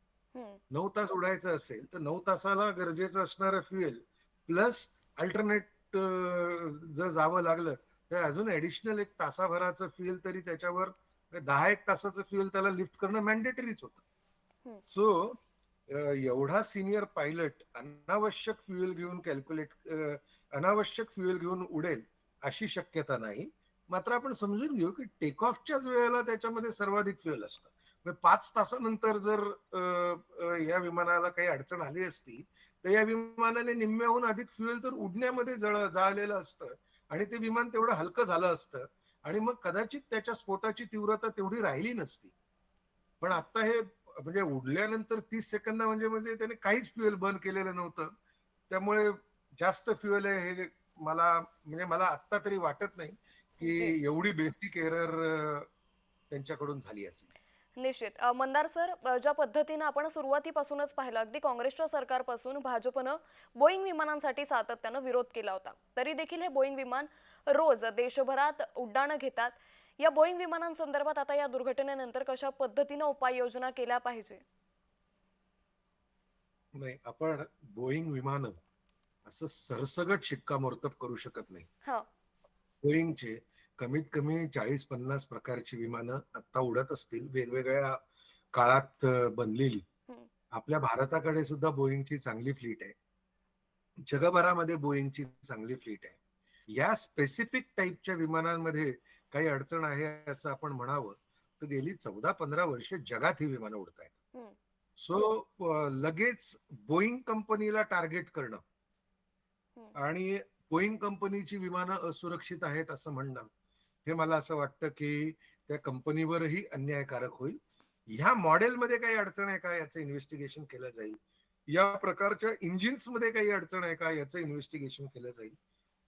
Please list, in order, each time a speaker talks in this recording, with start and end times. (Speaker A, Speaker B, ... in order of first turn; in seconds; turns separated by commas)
Speaker A: 0.3-0.6, Speaker B: 0.7-14.0, Speaker B: 14.9-15.4, Speaker B: 15.9-42.3, Speaker B: 43.2-48.1, Speaker B: 48.7-55.7, Speaker A: 53.6-54.0, Speaker B: 56.3-57.3, Speaker A: 57.8-74.4, Speaker B: 76.8-78.6, Speaker B: 79.2-81.7, Speaker B: 82.8-88.0, Speaker B: 88.5-89.8, Speaker B: 90.5-92.9, Speaker B: 94.1-96.2, Speaker B: 96.7-104.1, Speaker B: 105.0-108.6, Speaker B: 109.9-113.5, Speaker B: 114.0-117.6, Speaker B: 118.1-121.2, Speaker B: 121.7-125.5